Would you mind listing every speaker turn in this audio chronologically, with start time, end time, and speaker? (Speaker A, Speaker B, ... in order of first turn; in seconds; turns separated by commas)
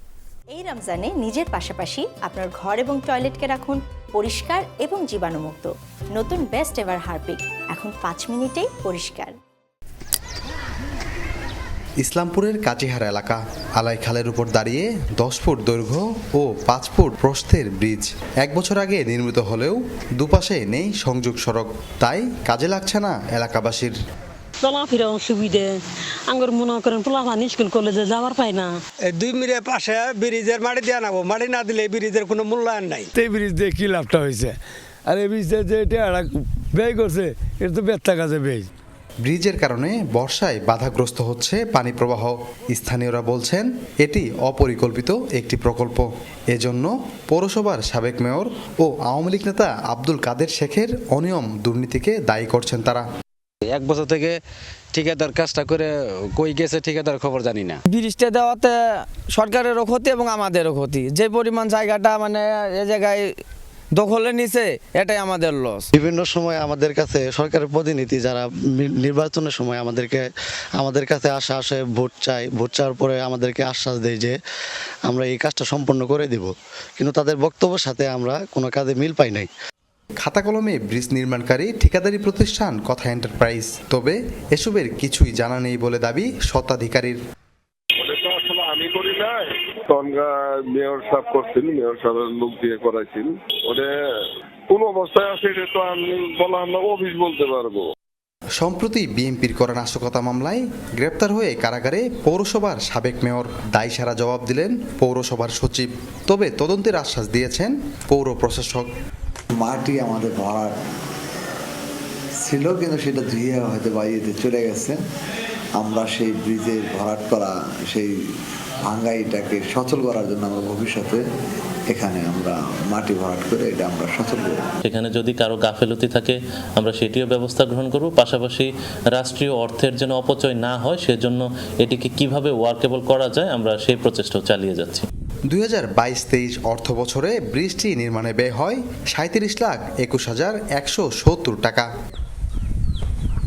Speaker A: 0.5-9.3, Speaker B: 12.0-23.9, Speaker C: 24.6-28.7, Speaker D: 29.1-33.1, Speaker E: 33.1-38.7, Speaker B: 39.2-53.0, Speaker F: 53.7-54.4, Speaker F: 54.9-57.8, Speaker G: 57.9-63.4, Speaker G: 63.9-65.8, Speaker H: 65.9-74.4, Speaker H: 75.0-79.5, Speaker B: 80.2-87.2, Speaker I: 88.0-93.9, Speaker I: 94.7-97.8, Speaker B: 98.6-108.9, Speaker J: 109.6-110.7, Speaker J: 112.4-115.0, Speaker J: 115.8-118.1, Speaker J: 118.8-121.2, Speaker J: 121.9-124.7, Speaker K: 124.8-135.1, Speaker B: 135.5-141.9